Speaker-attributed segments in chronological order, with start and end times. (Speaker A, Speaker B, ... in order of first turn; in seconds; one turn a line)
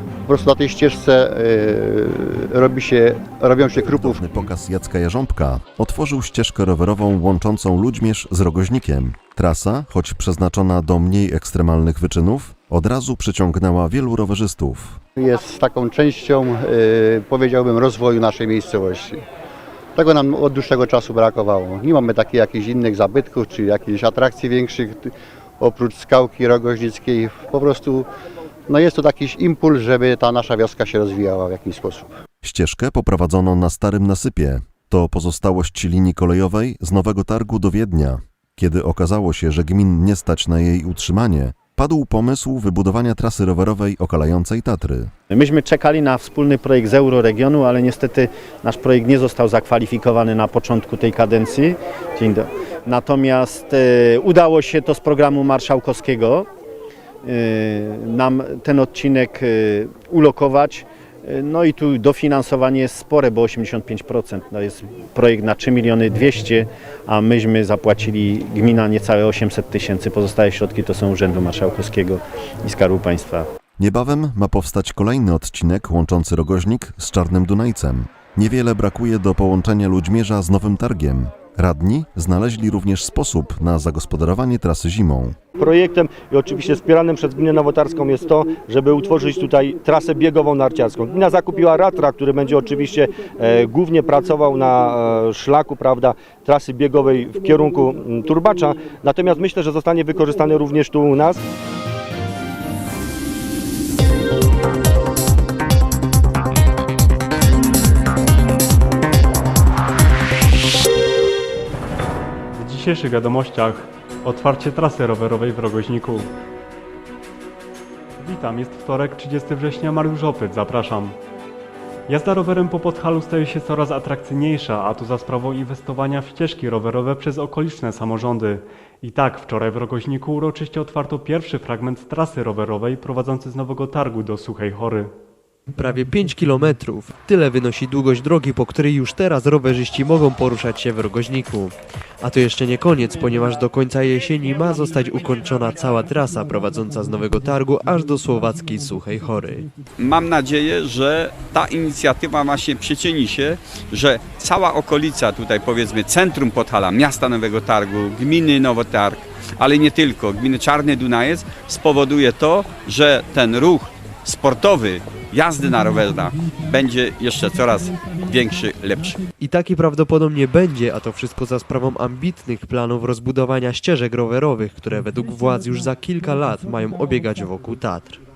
Speaker A: 0.2-4.2
Speaker B: 3.9-15.0
Speaker A: 15.2-19.2
Speaker A: 19.9-28.1
Speaker A: 28.7-32.1
Speaker B: 32.4-45.1
Speaker C: 45.3-56.5
Speaker C: 57.2-73.5
Speaker B: 73.8-85.3
Speaker D: 85.5-101.4
Speaker E: 112.5-116.3
Speaker E: 118.2-121.2
Speaker E: 122.1-135.1
Speaker F: 135.7-149.7
Speaker G: 150.0-169.2
Speaker F: 169.4-178.2